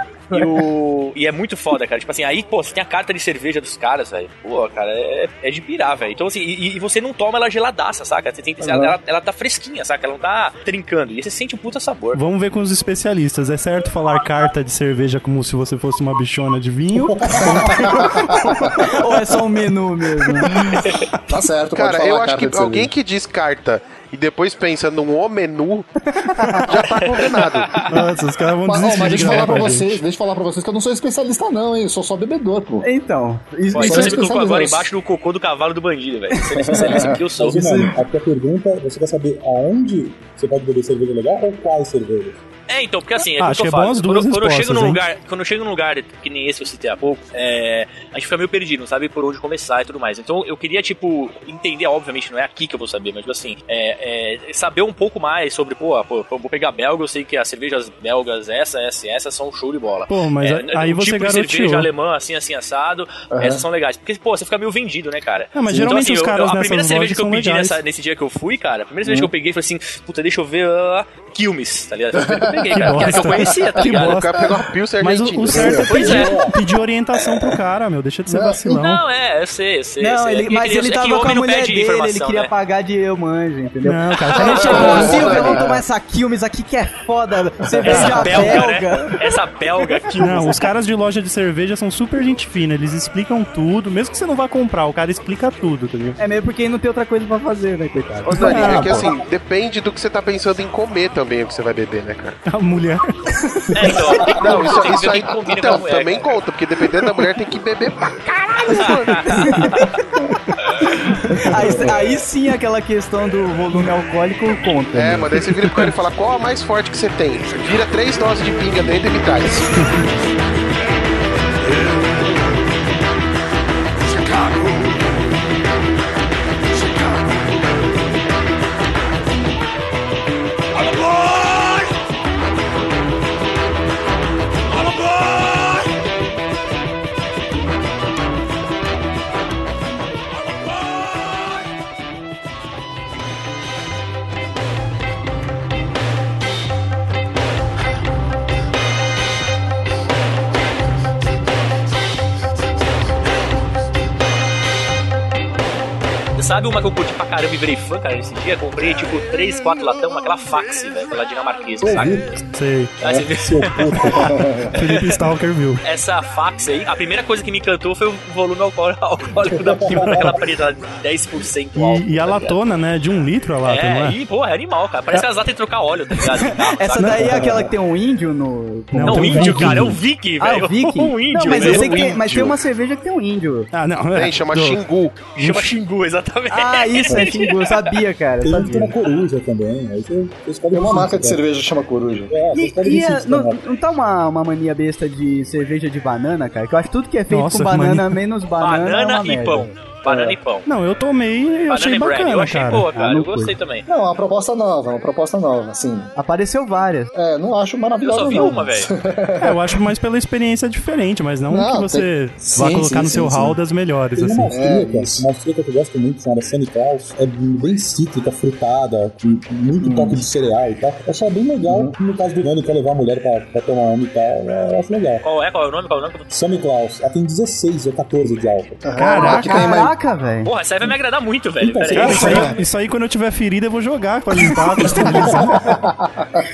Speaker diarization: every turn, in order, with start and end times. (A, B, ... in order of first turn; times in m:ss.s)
0:00.3-0:12.2 A
0:08.6-0:09.0 B
0:12.1-0:18.9 C
0:17.0-0:17.5 D
0:17.6-0:18.2 B
0:18.3-0:20.7 E
0:20.6-0:22.9 B
0:21.8-0:25.9 F
0:26.1-0:27.0 E
0:26.6-0:27.8 F
0:26.9-0:28.0 A
0:27.9-0:30.0 C
0:28.6-0:32.8 B
0:32.8-0:34.3 E
0:33.7-0:37.8 A
0:33.8-0:34.9 B
0:36.5-0:37.9 E
0:36.6-0:37.2 B
0:37.4-0:42.4 D
0:42.7-1:14.3 A
0:43.2-0:45.0 C
1:00.1-1:01.9 C
1:03.3-1:03.6 B
1:05.5-1:07.8 C
1:09.0-1:09.3 B
1:12.1-1:13.6 B
1:12.7-1:14.4 C
1:13.9-1:15.8 F
1:15.0-1:19.0 C
1:15.5-1:16.1 B
1:15.8-1:16.4 A
1:16.0-1:16.6 D
1:18.3-1:18.8 B
1:18.8-1:22.5 A
1:20.0-1:29.4 E
1:23.8-1:25.3 C
1:24.3-1:25.3 A
1:24.5-1:25.8 B
1:27.6-1:28.3 B
1:27.8-1:30.7 A
1:27.8-1:28.6 C
1:30.2-1:36.2 C
1:36.2-1:39.1 E
1:38.3-1:42.4 F
1:38.4-1:39.1 C
1:42.5-1:43.8 C
1:43.7-1:44.6 B
1:43.7-1:46.4 A
1:44.3-1:49.5 F
1:48.7-1:49.9 A
1:49.3-1:50.0 E
1:51.3-1:55.6 E
1:51.5-1:52.1 B
1:54.9-1:59.7 F
2:36.3-2:42.3 A
2:41.8-2:42.4 D
2:42.5-2:43.0 C
2:43.0-2:44.2 A
2:43.1-2:44.5 D
2:44.2-2:44.7 B
2:44.7-2:45.8 C
2:44.8-2:45.2 A
2:45.8-2:52.6 A
2:49.4-2:50.4 D
2:49.9-2:50.3 C
2:51.7-2:54.2 C
2:53.6-2:57.4 A
2:56.2-2:59.8 E
2:57.0-2:57.2 C
2:57.2-2:57.7 B
2:58.9-3:00.0 C
2:59.0-2:59.9 D
2:59.0-3:02.2 A
3:00.4-3:03.7 E
3:01.5-3:02.5 F
3:03.7-3:04.8 C
3:04.1-3:05.3 F
3:05.3-3:08.0 A
3:05.4-3:05.8 C
3:06.5-3:09.0 E
3:07.1-3:07.4 B
3:08.4-3:11.4 D
3:10.7-3:12.4 B
3:12.3-3:13.6 D
3:12.5-3:19.7 E
3:17.3-3:18.2 C
3:18.6-3:20.7 A
3:20.0-3:20.4 B
3:20.6-3:22.9 C
3:21.7-3:23.8 A
3:22.9-3:23.5 E
3:23.9-3:26.1 B
3:26.2-3:27.1 E
3:27.1-3:29.8 B
3:28.0-3:28.9 A
3:29.4-3:34.5 C
3:31.5-3:33.6 B
3:34.2-3:45.2 D
3:34.5-3:35.2 B
3:39.8-3:40.2 B
3:41.7-3:42.0 B
3:45.2-3:46.2 A
3:46.3-3:48.8 D
3:48.8-3:49.9 B
3:49.0-3:49.7 C
3:49.2-3:50.5 E
3:50.4-3:52.5 A
3:51.6-3:52.5 D
3:51.9-3:55.7 C
3:52.2-3:52.5 B
3:55.1-3:55.6 D
3:55.4-3:56.4 B